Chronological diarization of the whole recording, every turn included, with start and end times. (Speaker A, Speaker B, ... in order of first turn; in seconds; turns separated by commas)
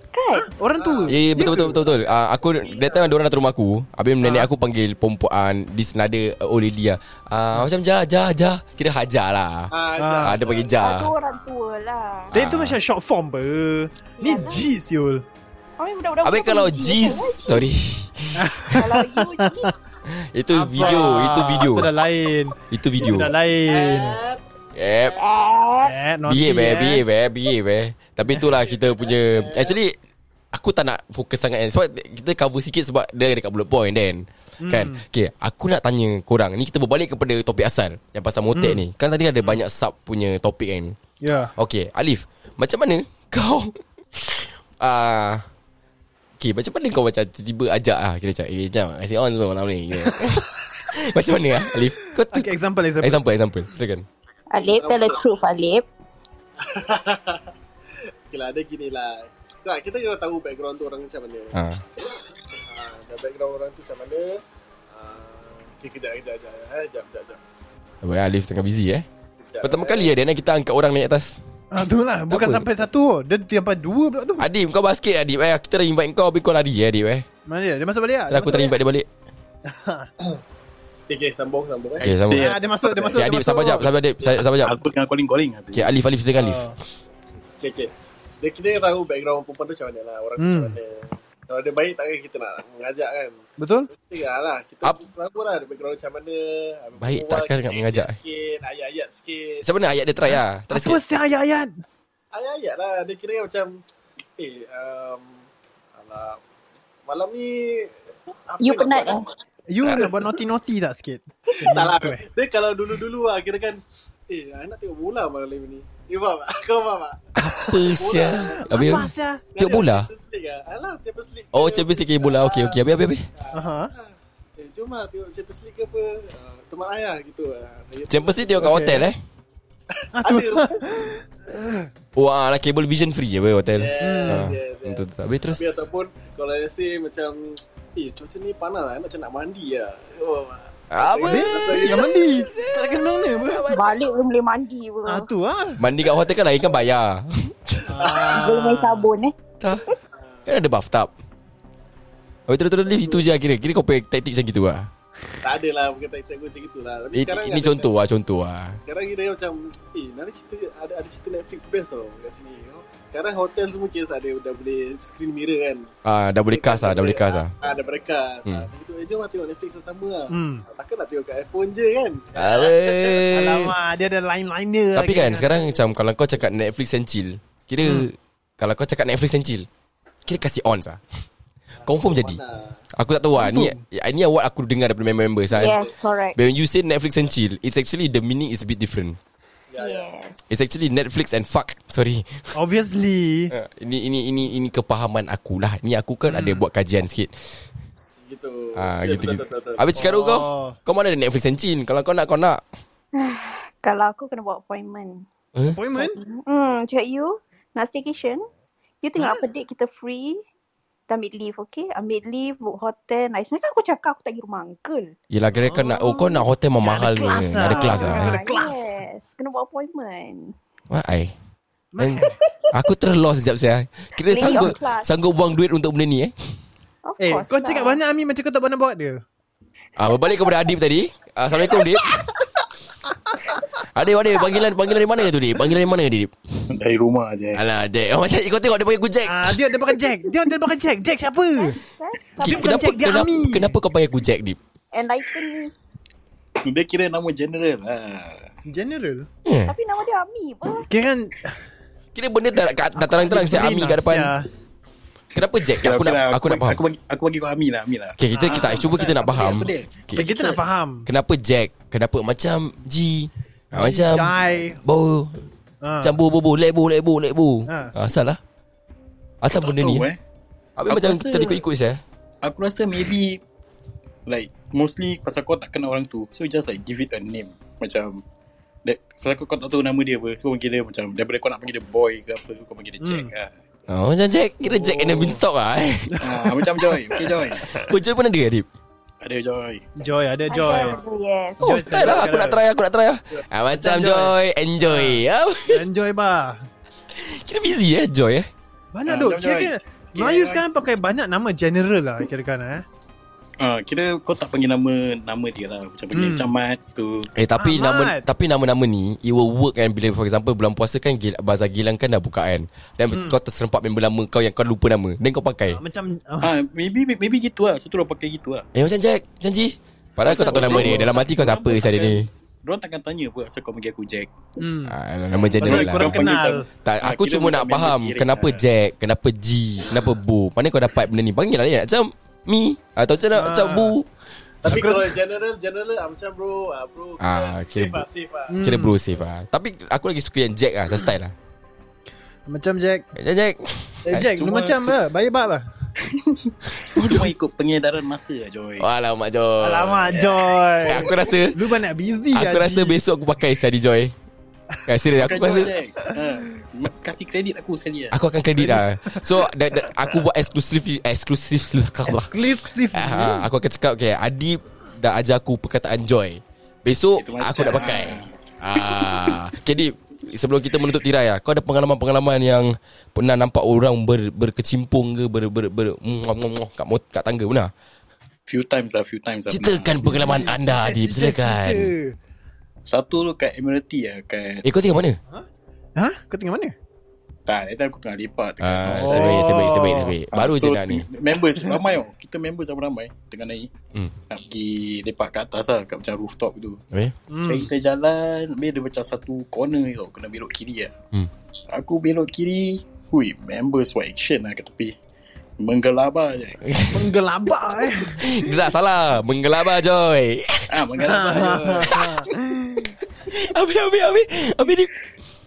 Speaker A: 0.1-0.5, Speaker B: 0.4-1.8, Speaker C: 0.8-3.1, Speaker D: 1.1-11.1, Speaker B: 4.2-4.5, Speaker C: 9.7-11.0, Speaker B: 10.0-10.4, Speaker A: 10.8-12.3, Speaker D: 12.3-12.8, Speaker B: 12.3-15.2, Speaker A: 14.2-14.7, Speaker A: 15.8-17.7, Speaker D: 16.2-18.8, Speaker B: 18.4-19.7, Speaker A: 18.7-19.7, Speaker D: 20.1-21.9, Speaker B: 20.5-24.2, Speaker C: 20.8-21.2, Speaker D: 22.7-23.3, Speaker C: 23.7-24.4, Speaker D: 24.7-25.2, Speaker A: 25.2-25.9, Speaker B: 25.8-27.0, Speaker D: 26.3-29.9, Speaker C: 28.4-29.8, Speaker D: 30.5-40.9, Speaker B: 34.6-35.0, Speaker B: 38.5-38.8, Speaker B: 41.2-41.5, Speaker D: 41.6-45.4, Speaker D: 46.4-54.0, Speaker B: 50.1-50.4, Speaker B: 52.2-53.2, Speaker A: 54.5-55.8, Speaker C: 54.6-55.2, Speaker C: 56.6-57.5, Speaker C: 58.3-61.6, Speaker D: 61.5-61.8, Speaker C: 62.7-67.4, Speaker D: 68.0-69.0, Speaker C: 69.4-70.1, Speaker D: 69.6-71.4, Speaker B: 71.7-74.5, Speaker D: 72.3-72.7, Speaker D: 74.4-77.2, Speaker B: 77.5-78.8, Speaker D: 78.3-79.1, Speaker B: 79.7-80.1, Speaker C: 81.1-82.2, Speaker E: 82.0-83.1, Speaker D: 82.0-84.8, Speaker B: 82.3-83.9, Speaker E: 84.6-85.9, Speaker D: 85.7-86.7, Speaker B: 86.4-86.7, Speaker C: 87.6-93.4, Speaker B: 90.4-90.8, Speaker B: 93.6-93.9, Speaker C: 93.9-99.7, Speaker D: 97.0-98.2, Speaker D: 99.6-101.0, Speaker B: 100.3-101.8, Speaker C: 102.3-103.8, Speaker C: 104.4-105.3, Speaker C: 105.9-106.4, Speaker C: 107.0-109.2, Speaker A: 108.6-109.3, Speaker B: 109.7-112.2, Speaker C: 111.5-122.8, Speaker D: 117.3-120.1, Speaker B: 117.5-117.8, Speaker B: 118.7-119.4, Speaker D: 121.5-123.3, Speaker C: 123.3-128.9, Speaker B: 123.5-123.9, Speaker D: 128.1-129.2, Speaker B: 128.6-129.1, Speaker C: 130.0-130.8, Speaker B: 130.1-131.9, Speaker D: 132.2-135.6, Speaker C: 133.7-142.2, Speaker B: 134.0-134.5, Speaker D: 140.9-144.1, Speaker B: 141.2-143.7, Speaker A: 143.7-145.3, Speaker B: 145.1-145.8, Speaker D: 145.8-147.9, Speaker B: 147.9-149.1, Speaker C: 147.9-148.4, Speaker A: 148.1-149.3, Speaker C: 150.1-150.5, Speaker D: 150.4-151.1, Speaker D: 152.5-154.9, Speaker C: 152.8-153.2, Speaker C: 155.4-157.9, Speaker D: 157.1-158.8, Speaker C: 158.9-165.9, Speaker D: 166.0-167.5, Speaker C: 166.5-173.3, Speaker B: 170.3-170.6, Speaker D: 172.3-173.7, Speaker B: 173.3-175.6, Speaker D: 174.9-179.7, Speaker B: 177.8-178.1, Speaker D: 180.2-181.0, Speaker C: 181.8-182.8, Speaker D: 181.8-182.4, Speaker D: 182.9-185.8, Speaker B: 183.3-183.8, Speaker A: 185.5-186.4, Speaker C: 185.5-185.9, Speaker D: 186.3-189.2, Speaker C: 189.7-190.1, Speaker A: 189.8-190.5, Speaker D: 190.5-192.5, Speaker B: 192.6-193.5, Speaker D: 193.5-197.3, Speaker B: 196.3-196.6, Speaker C: 198.2-199.8, Speaker D: 198.8-202.6, Speaker B: 199.9-200.8, Speaker A: 203.1-205.2, Speaker B: 205.7-206.2, Speaker A: 206.0-208.4, Speaker A: 209.0-210.4, Speaker B: 209.2-209.4, Speaker A: 211.1-215.1, Speaker D: 215.3-218.4, Speaker B: 215.6-219.0, Speaker A: 217.6-220.5, Speaker D: 220.9-221.3, Speaker B: 221.9-222.3, Speaker D: 222.0-226.3, Speaker A: 224.2-225.1, Speaker A: 227.0-228.0, Speaker B: 227.2-229.2, Speaker D: 230.0-232.2, Speaker D: 233.9-236.6, Speaker E: 236.7-237.6, Speaker D: 237.5-239.6, Speaker B: 239.2-241.8, Speaker A: 241.6-243.2, Speaker B: 242.4-243.8, Speaker D: 242.4-244.6, Speaker A: 244.9-245.7, Speaker E: 246.6-248.4, Speaker B: 248.7-249.3, Speaker D: 249.4-249.7, Speaker A: 249.7-250.9, Speaker B: 250.8-251.6, Speaker D: 252.1-254.3, Speaker B: 252.9-254.5, Speaker D: 255.3-256.8, Speaker E: 255.8-260.6, Speaker D: 258.2-260.3, Speaker B: 258.3-258.9, Speaker B: 260.1-261.1, Speaker D: 261.1-265.4, Speaker B: 263.7-264.8, Speaker B: 265.8-266.1, Speaker D: 266.0-268.4, Speaker B: 267.7-267.9, Speaker D: 269.4-270.1, Speaker E: 269.5-270.2, Speaker D: 270.8-272.0, Speaker E: 270.9-271.6, Speaker E: 272.4-273.4, Speaker E: 274.2-278.2, Speaker E: 278.8-283.6, Speaker B: 283.0-283.3, Speaker D: 283.9-286.4, Speaker B: 284.6-285.4, Speaker B: 286.1-287.9, Speaker E: 286.2-287.7, Speaker D: 287.7-288.6, Speaker E: 289.2-289.9, Speaker B: 290.0-291.0, Speaker A: 290.5-291.6, Speaker B: 291.6-292.6, Speaker D: 291.6-295.8, Speaker B: 293.7-294.3, Speaker B: 294.8-296.6, Speaker D: 297.1-298.5, Speaker B: 298.9-302.8, Speaker E: 299.1-300.6, Speaker E: 303.6-307.3, Speaker B: 306.1-306.5, Speaker D: 307.3-315.8, Speaker B: 307.6-308.2, Speaker B: 313.1-313.4, Speaker B: 315.7-316.5, Speaker E: 316.4-318.6, Speaker D: 318.7-322.2, Speaker B: 320.2-321.1, Speaker E: 320.2-324.3, Speaker B: 324.6-324.9, Speaker D: 324.9-326.2, Speaker E: 325.4-328.6, Speaker B: 325.5-326.6, Speaker D: 326.8-334.1, Speaker B: 333.3-333.9, Speaker C: 334.6-338.6, Speaker B: 334.6-335.1, Speaker D: 337.2-338.1, Speaker B: 338.5-339.0, Speaker D: 338.6-341.3, Speaker B: 342.5-343.1, Speaker D: 343.1-344.3, Speaker B: 344.1-345.6, Speaker E: 344.4-344.9, Speaker E: 346.1-348.9, Speaker D: 346.8-347.3, Speaker D: 348.8-350.1, Speaker B: 349.6-353.0, Speaker D: 350.8-351.6, Speaker D: 352.3-354.1, Speaker D: 354.9-355.7, Speaker E: 355.1-358.2, Speaker D: 358.1-377.7, Speaker B: 358.6-359.5, Speaker B: 362.1-363.5, Speaker E: 367.2-369.3, Speaker E: 378.5-380.5, Speaker D: 379.5-381.9, Speaker B: 380.0-382.1, Speaker E: 382.9-384.6, Speaker D: 384.6-385.2, Speaker B: 386.0-386.7, Speaker E: 387.4-389.7, Speaker D: 388.6-391.0, Speaker B: 388.9-390.1, Speaker E: 390.3-393.7, Speaker E: 394.3-396.8, Speaker B: 397.3-397.7, Speaker E: 397.5-400.9, Speaker E: 401.7-404.9, Speaker E: 405.6-406.7, Speaker D: 406.6-407.1, Speaker B: 406.9-408.4, Speaker D: 408.2-410.8, Speaker E: 410.7-412.2, Speaker B: 411.0-413.0, Speaker D: 413.3-414.9